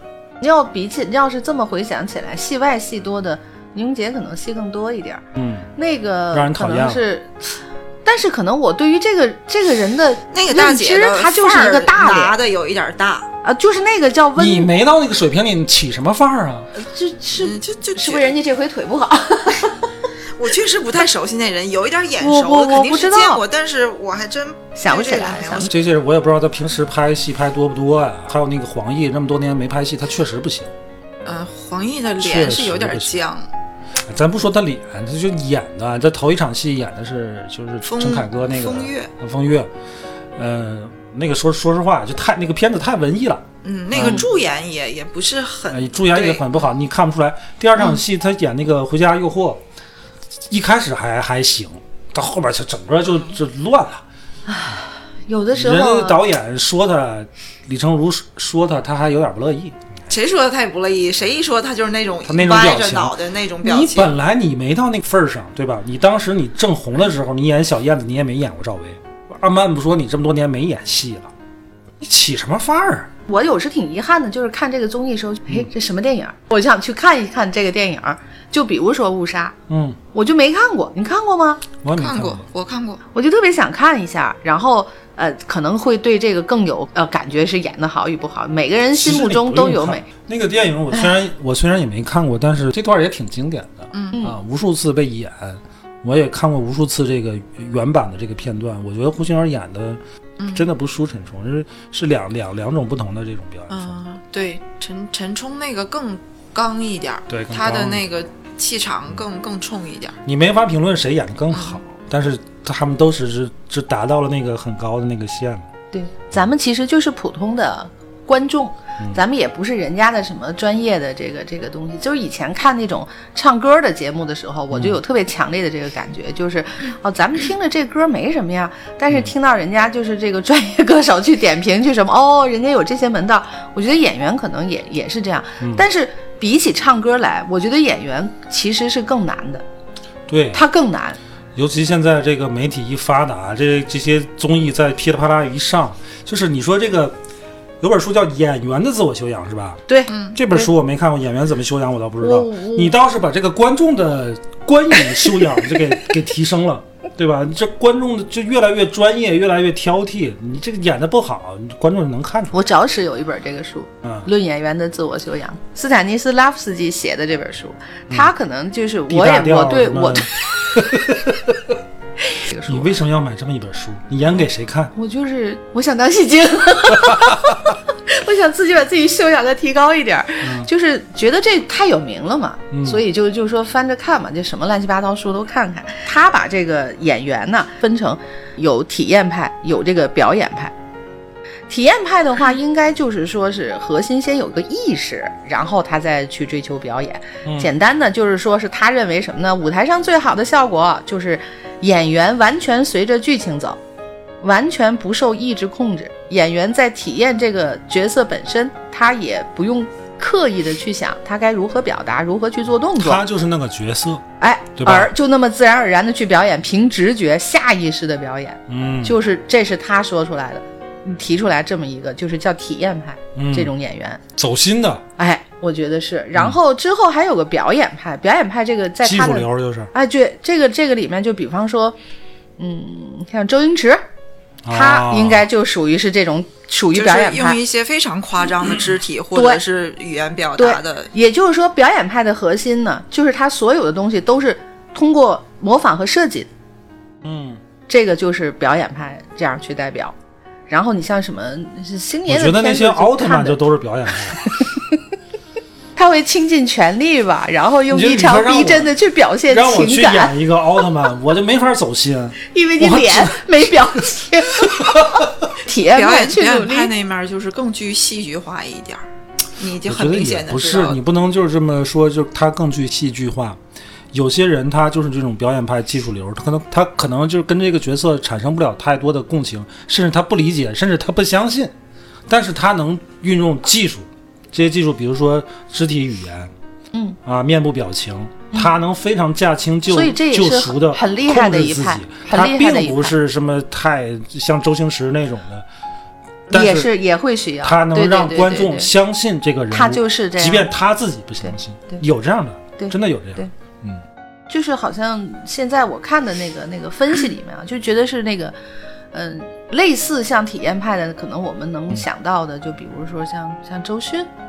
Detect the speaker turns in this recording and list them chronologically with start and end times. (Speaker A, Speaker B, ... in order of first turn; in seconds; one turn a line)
Speaker A: 0.4-5.2
Speaker B: 5.3-5.7
Speaker A: 5.8-7.5
Speaker B: 6.3-7.0
Speaker A: 8.0-12.3
Speaker C: 10.3-13.3
Speaker A: 13.4-14.7
Speaker B: 14.3-16.7
Speaker A: 16.8-19.9
Speaker C: 17.3-18.3
Speaker C: 20.4-25.7
Speaker A: 22.2-23.4
Speaker A: 24.8-25.7
Speaker B: 25.7-30.7
Speaker C: 31.2-33.5
Speaker B: 32.2-33.2
Speaker B: 34.0-39.7
Speaker C: 37.9-39.1
Speaker B: 40.4-44.2
Speaker C: 43.6-46.5
Speaker B: 45.7-49.6
Speaker B: 50.5-54.0
Speaker A: 54.5-56.2
Speaker B: 55.5-59.8
Speaker C: 60.1-64.1
Speaker B: 62.2-71.3
Speaker B: 72.0-73.1
Speaker A: 73.3-79.5
Speaker B: 79.7-80.0
Speaker A: 80.1-81.6
Speaker B: 81.8-82.4
Speaker C: 82.0-83.0
Speaker A: 83.1-90.1
Speaker B: 88.9-100.0
Speaker C: 93.9-94.2
Speaker C: 100.4-100.7
Speaker B: 100.5-104.0
Speaker C: 103.7-110.2
Speaker B: 107.3-108.0
Speaker B: 110.2-115.7
Speaker C: 111.5-111.8
Speaker A: 115.9-139.6
Speaker B: 124.7-125.0
Speaker B: 140.3-140.6
Speaker A: 140.5-141.2
Speaker B: 141.5-147.2
Speaker B: 147.8-162.6
Speaker A: 149.9-150.7
Speaker C: 150.1-150.4
Speaker A: 152.2-152.9
Speaker A: 162.5-170.3
Speaker B: 164.0-164.3
Speaker B: 169.1-171.8
Speaker A: 172.3-173.0
Speaker B: 172.7-174.9
Speaker A: 174.9-190.7
Speaker B: 177.0-177.5
Speaker B: 180.4-180.7
Speaker B: 182.7-183.0
Speaker A: 191.7-203.8
Speaker B: 197.4-197.7
Speaker A: 204.4-213.2
Speaker B: 213.0-214.2
Speaker A: 214.4-224.2
Speaker B: 214.8-215.1
Speaker B: 218.7-219.2
Speaker B: 223.3-223.7
Speaker B: 224.3-225.0
Speaker A: 225.2-232.0
Speaker B: 229.0-229.9
Speaker A: 232.6-234.0
Speaker B: 234.6-235.4
Speaker A: 234.7-237.6
Speaker C: 236.9-241.1
Speaker A: 239.3-239.6
Speaker A: 240.6-246.5
Speaker B: 247.2-247.6
Speaker A: 247.9-250.1
Speaker A: 250.7-253.6
Speaker B: 252.3-254.5
Speaker A: 254.5-254.8
Speaker A: 255.9-260.3
Speaker B: 257.9-258.9
Speaker B: 259.5-263.8
Speaker A: 262.5-265.0
Speaker B: 264.7-265.3
Speaker A: 265.6-266.9
Speaker C: 265.9-269.0
Speaker C: 269.6-271.0
Speaker B: 269.8-273.6
Speaker B: 274.1-281.7
Speaker B: 282.3-286.5
Speaker B: 287.2-295.6
Speaker A: 289.9-293.1
Speaker B: 296.5-296.9
Speaker A: 296.5-298.9
Speaker B: 297.6-304.0
Speaker A: 299.7-300.7
Speaker A: 301.4-302.0
Speaker A: 302.8-303.5
Speaker A: 304.5-308.5
Speaker A: 309.1-314.3